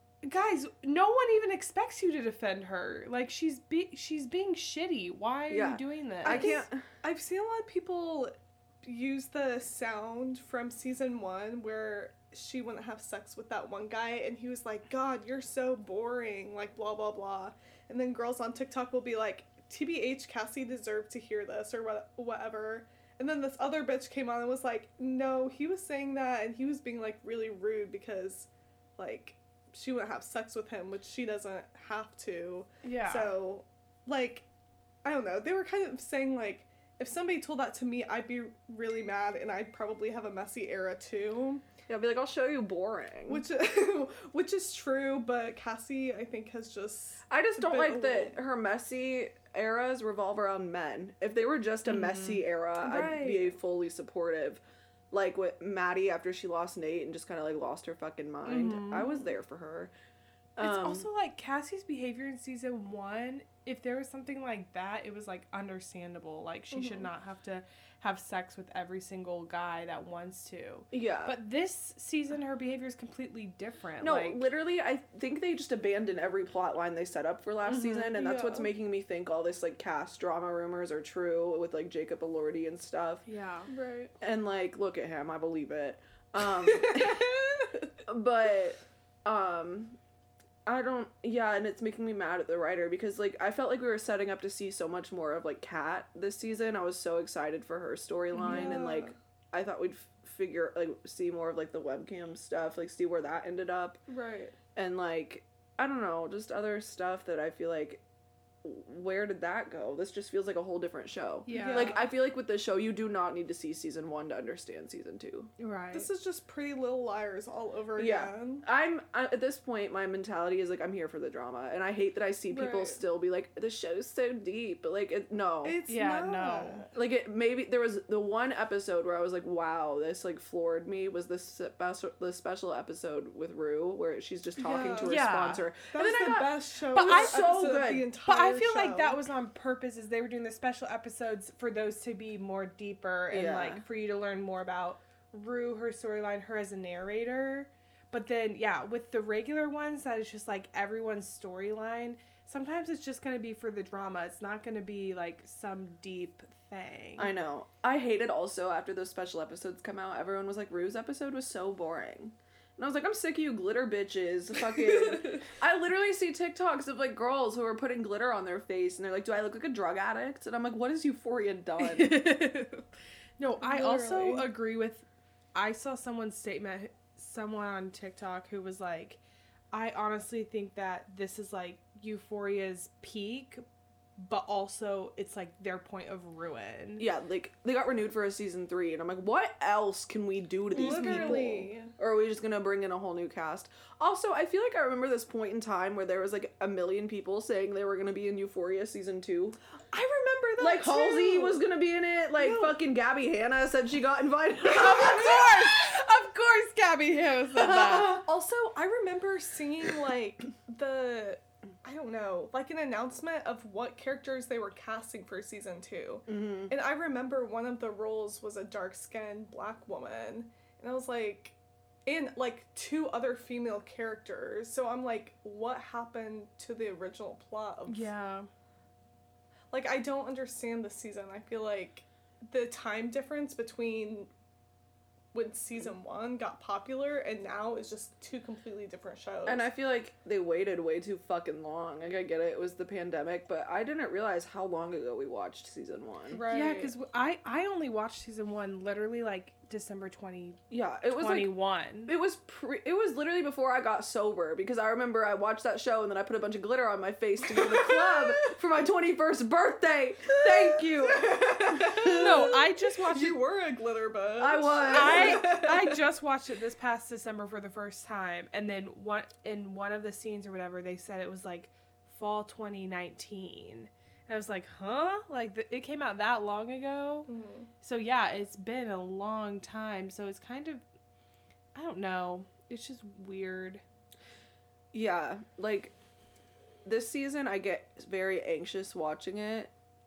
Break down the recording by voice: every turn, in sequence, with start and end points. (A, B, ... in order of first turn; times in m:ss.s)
0:00.2-0:06.6 A
0:05.5-0:06.8 B
0:06.2-0:34.5 C
0:32.8-0:33.3 A
0:35.0-0:41.6 C
0:41.9-0:43.5 B
0:43.3-0:48.4 C
0:47.3-0:59.9 B
0:51.9-0:53.6 A
0:58.5-0:59.1 A
0:58.5-0:59.1 C
1:00.6-1:01.1 B
1:00.6-1:14.4 A
1:06.7-1:07.1 C
1:10.9-1:11.4 B
1:14.0-1:23.2 B
1:17.7-1:18.7 C
1:23.3-1:23.7 A
1:23.7-1:24.1 C
1:24.2-1:27.3 B
1:26.4-1:27.9 C
1:28.1-1:30.0 B
1:30.7-1:44.0 B
1:38.3-1:39.2 C
1:44.1-1:44.6 C
1:44.8-1:48.0 B
1:48.6-1:55.5 B
1:51.5-1:52.0 A
1:51.5-1:52.1 C
1:55.6-1:56.1 A
1:55.9-1:58.6 C
1:58.0-2:05.8 B
2:02.5-2:03.0 C
2:05.6-2:06.9 C
2:05.9-2:06.8 A
2:07.0-2:18.1 B
2:14.6-2:15.2 C
2:15.0-2:15.7 A
2:15.9-2:19.2 C
2:16.9-2:17.5 A
2:18.3-2:37.3 A
2:23.3-2:23.8 B
2:37.2-2:52.2 B
2:45.1-2:45.4 A
2:51.8-2:52.9 A
2:53.4-3:03.6 A
2:53.6-2:54.5 C
3:04.2-3:07.0 A
3:07.0-3:19.6 B
3:10.7-3:11.9 C
3:10.8-3:11.3 A
3:19.9-3:20.7 A
3:20.0-3:21.6 C
3:20.6-3:26.0 B
3:22.4-3:22.7 C
3:24.6-3:28.2 A
3:27.6-3:28.2 B
3:27.8-3:48.1 C
3:36.3-3:36.7 B
3:47.9-3:48.5 A
3:49.7-3:54.3 C
3:55.3-3:59.7 C
3:59.5-4:06.4 B
4:06.3-4:06.9 C
4:06.5-4:10.6 A
4:10.7-4:11.5 B
4:11.2-4:12.1 A
4:12.1-4:22.6 B
4:17.5-4:18.6 C
4:20.3-4:26.0 C
4:22.1-4:23.4 A
4:24.4-4:25.8 B
4:24.9-4:37.3 A
4:37.3-4:37.7 C
4:37.8-4:40.8 A
4:41.8-4:43.8 A
4:44.9-4:46.0 B
4:46.8-4:49.7 B